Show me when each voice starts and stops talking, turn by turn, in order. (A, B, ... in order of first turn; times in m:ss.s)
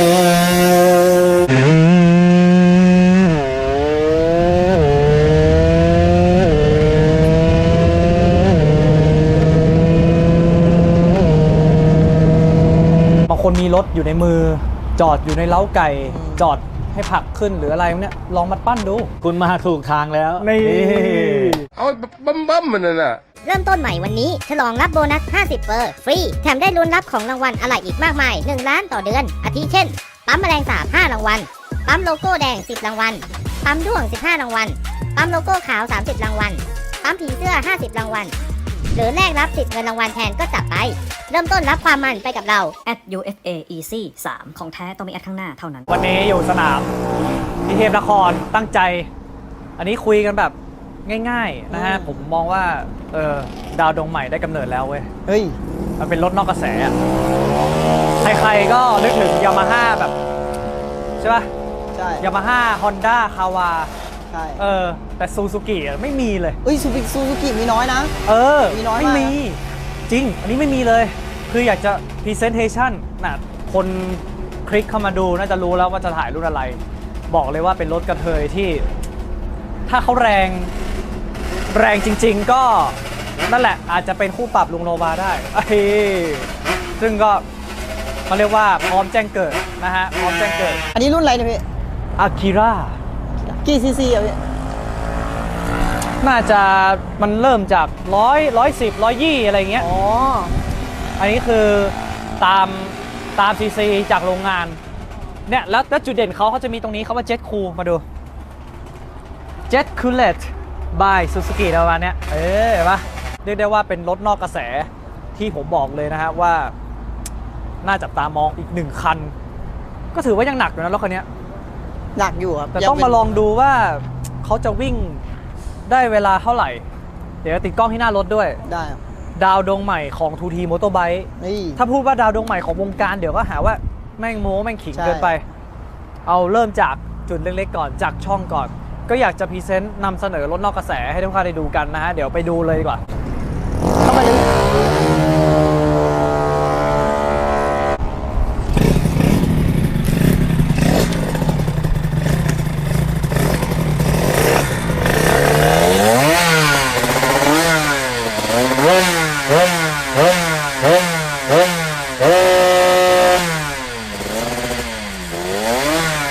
0:13.3-0:19.8 A
0:16.1-0:16.4 B
0:20.4-0:21.6 A
0:20.5-0:20.8 C
0:21.4-0:23.2 C
0:23.4-0:38.3 D
0:38.9-0:42.7 D
0:42.8-0:45.9 E
0:45.9-0:46.9 A
0:47.6-0:49.1 A
0:49.8-0:55.1 A
0:51.7-0:52.2 B
0:55.2-0:55.6 B
0:56.0-0:56.9 A
0:58.2-1:00.1 A
1:01.2-1:01.5 A
1:01.9-1:02.3 B
1:02.2-1:03.9 A
1:04.3-1:04.6 B
1:04.6-1:06.6 A
1:06.6-1:08.1 B
1:08.2-1:18.8 A
1:08.7-1:09.4 B
1:19.9-1:20.7 A
1:21.7-1:27.4 A
1:28.3-1:30.8 A
1:30.9-1:31.6 B
1:32.2-1:33.0 A
1:33.4-1:34.4 B
1:36.2-1:39.9 A
1:39.8-1:40.6 B
1:41.2-1:44.8 A
1:45.5-1:48.0 A
1:49.7-1:56.7 A
1:57.8-1:59.3 A
2:00.1-2:01.2 A
2:02.2-2:03.4 B
2:02.7-2:05.2 A
2:05.9-2:06.8 A
2:07.4-2:08.6 A
2:08.6-2:09.0 B
2:09.4-2:15.4 A
2:11.4-2:11.8 B
2:14.9-2:15.3 B
2:16.2-2:23.0 A
2:24.0-2:24.4 B